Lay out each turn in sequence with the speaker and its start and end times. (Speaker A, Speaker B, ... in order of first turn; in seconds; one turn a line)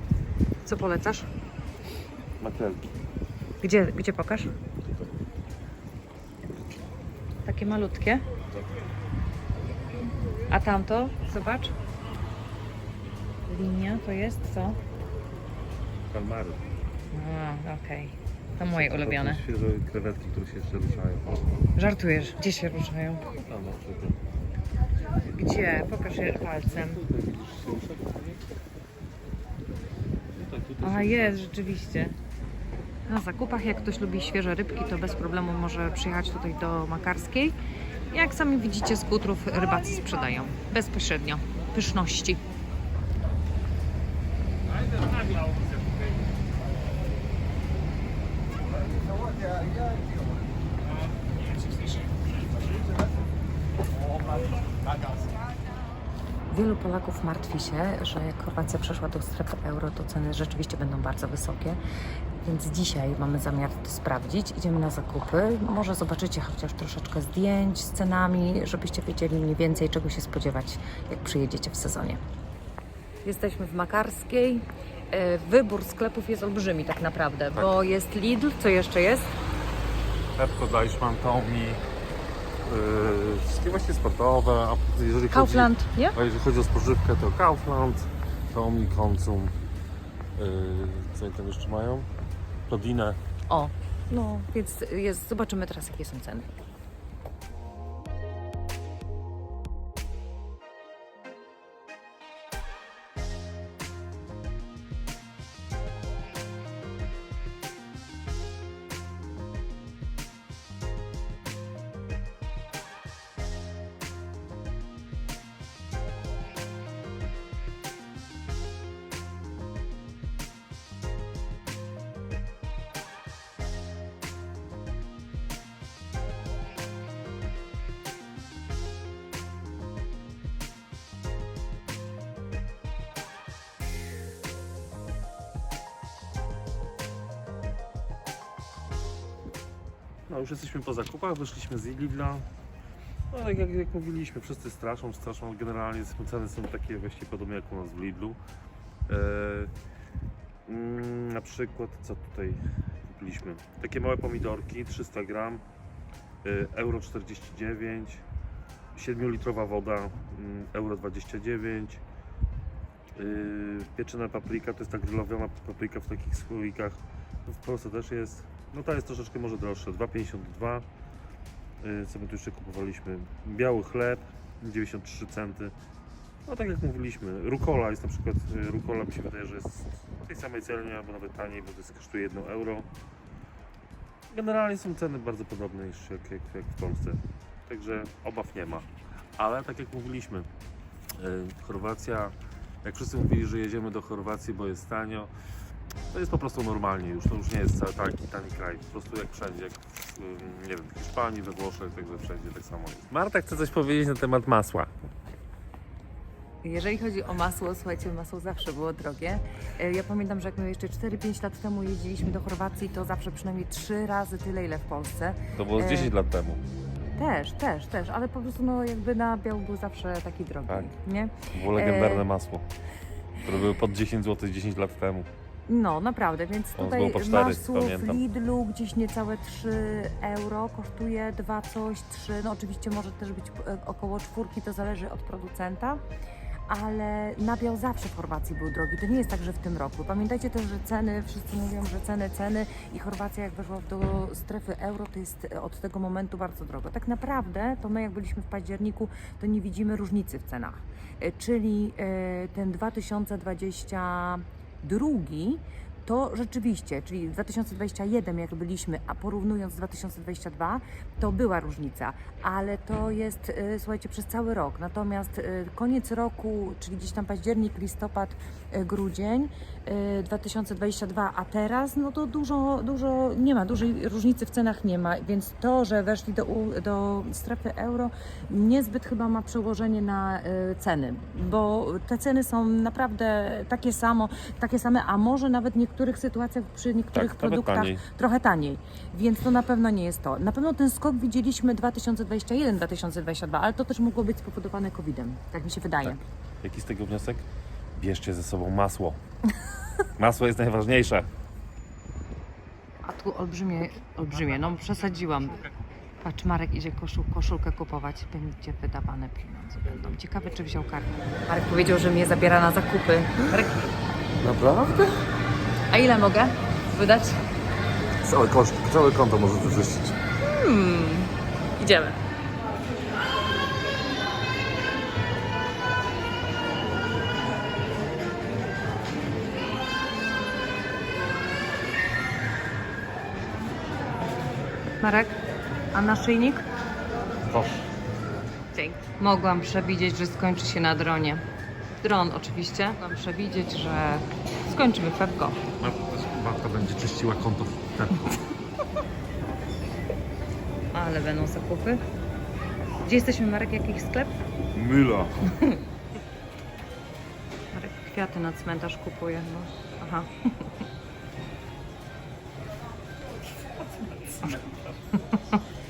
Speaker A: 0.6-1.3
Speaker B: 2.4-2.9
Speaker A: 3.6-4.5
Speaker A: 7.4-8.2
Speaker A: 10.5-11.7
Speaker A: 13.5-14.8
Speaker B: 16.1-16.6
Speaker A: 17.1-19.4
Speaker B: 18.6-21.4
Speaker A: 21.8-23.3
Speaker B: 23.4-24.2
Speaker A: 25.3-27.0
Speaker B: 26.7-28.4
Speaker B: 30.3-31.5
Speaker A: 30.8-32.1
Speaker A: 33.1-37.5
Speaker A: 38.1-42.4
Speaker B: 44.9-45.8
Speaker A: 56.5-61.8
Speaker A: 62.4-72.2
Speaker A: 73.2-79.3
Speaker B: 80.3-81.8
Speaker B: 82.6-89.5
Speaker A: 85.3-86.2
Speaker B: 90.3-92.1
Speaker B: 92.7-93.2
Speaker A: 93.5-96.5
Speaker B: 140.3-142.5
Speaker B: 143.3-148.4
Speaker B: 149.1-149.7
Speaker B: 150.7-155.6
Speaker B: 156.4-158.2
Speaker B: 158.9-162.0
Speaker B: 163.2-170.8
Speaker B: 171.8-175.7
Speaker B: 176.5-182.9
Speaker B: 184.3-190.5
Speaker B: 191.2-195.3
Speaker B: 196.1-204.9
Speaker A: 206.6-216.1
Speaker B: 215.5-216.6
Speaker A: 217.2-222.2
Speaker B: 221.5-222.7
Speaker B: 223.4-225.3
Speaker A: 225.7-236.0
Speaker B: 226.8-228.2
Speaker A: 236.7-296.2
Speaker B: 287.1-288.0
Speaker B: 296.0-299.2
Speaker B: 300.2-301.3
Speaker A: 303.0-313.9
Speaker B: 314.4-315.2
Speaker A: 315.9-317.4
Speaker B: 318.2-320.2
Speaker A: 320.4-322.2
Speaker A: 335.0-335.4
Speaker A: 335.9-336.6
Speaker B: 337.4-337.9
Speaker A: 338.7-341.4
Speaker A: 342.0-345.6
Speaker B: 345.8-348.4
Speaker A: 350.9-352.0
Speaker A: 353.0-354.3
Speaker B: 354.7-355.5
Speaker A: 355.5-355.8
Speaker A: 357.7-360.8
Speaker A: 365.3-365.6